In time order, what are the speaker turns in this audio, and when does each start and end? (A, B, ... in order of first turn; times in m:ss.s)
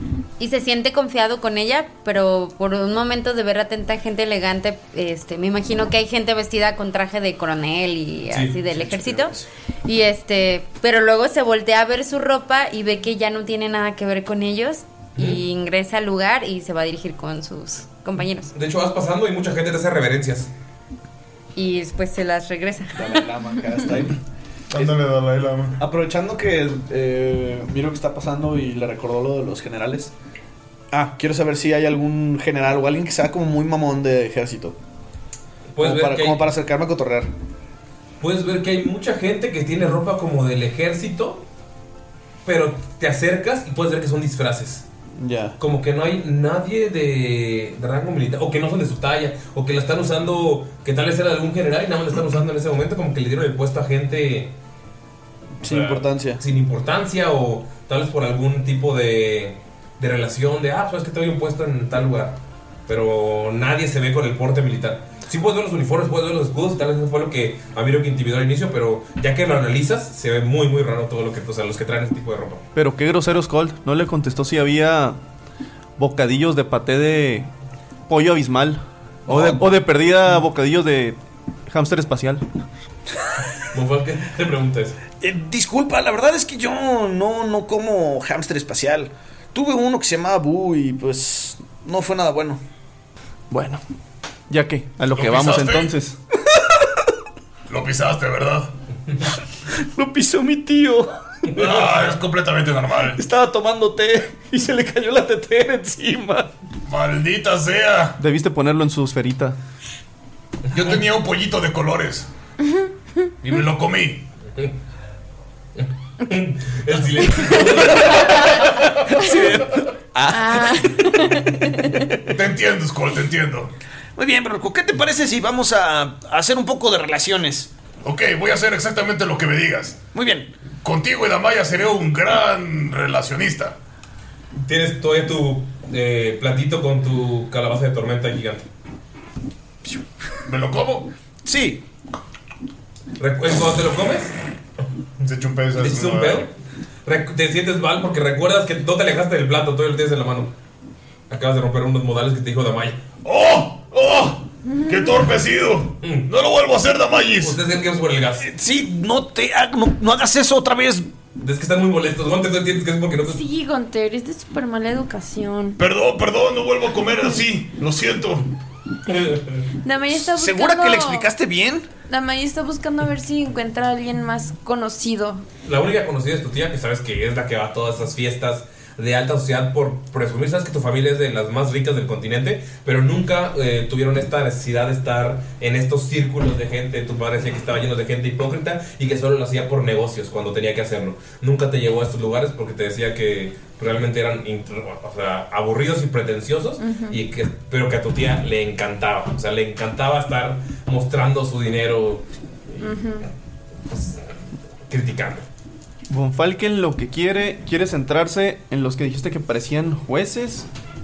0:00.4-0:09.3 A
0:08.3-0:09.2 B
0:09.8-0:18.5 A
0:15.2-0:15.4 B
0:18.5-0:20.5 B
0:21.6-0:23.3 A
0:23.0-0:24.2 C
0:24.7-0:25.8 D
0:25.8-0:30.1 C
0:30.9-0:34.8 C
0:35.8-0:36.5 B
0:35.8-0:37.3 C
0:38.2-0:41.4 B
0:42.4-0:44.9 B
0:45.2-0:45.6 C
0:45.6-0:54.5 B
0:55.6-0:56.4 C
0:55.6-1:12.6 B
1:12.8-1:15.2 E
1:16.0-1:17.5 E
1:18.1-1:22.5 E
1:19.3-1:19.6 B
1:23.7-1:25.0 B
1:25.2-1:32.6 C
1:33.5-1:33.8 E
1:34.5-1:36.2 E
1:35.2-1:35.9 D
1:37.7-1:38.7 D
1:39.8-1:41.1 C
1:41.6-1:43.2 D
1:43.1-1:46.5 C
1:46.9-1:48.2 D
1:48.2-1:49.6 E
1:50.7-1:52.3 D
1:53.4-1:54.2 D
1:55.8-1:58.6 B
1:57.9-2:01.2 C
2:00.3-2:01.9 F
2:02.3-2:03.7 D
2:04.2-2:07.7 C
2:08.0-2:10.0 D
2:10.1-2:10.5 C
2:10.8-2:13.8 D
2:14.6-2:18.7 B
2:20.5-2:21.1 D
2:21.4-2:21.8 C
2:23.2-2:24.4 B
2:25.2-2:26.5 D
2:25.8-2:26.5 B
2:27.0-2:30.5 B
2:31.3-2:33.0 B
2:33.2-2:37.6 D
2:34.7-2:35.2 F
2:36.0-2:36.3 B
2:37.4-2:38.5 B
2:38.4-2:41.1 C
2:41.4-2:43.4 B
2:43.3-2:45.8 F
2:45.8-2:48.5 D
2:49.1-2:49.6 B
2:49.8-2:51.3 F
2:50.2-2:51.9 C
2:52.1-2:55.4 F
2:55.6-3:22.8 B
3:16.8-3:17.2 F
3:22.8-3:23.3 F
3:23.9-3:24.2 B
3:24.9-3:25.5 B
3:26.1-3:30.7 E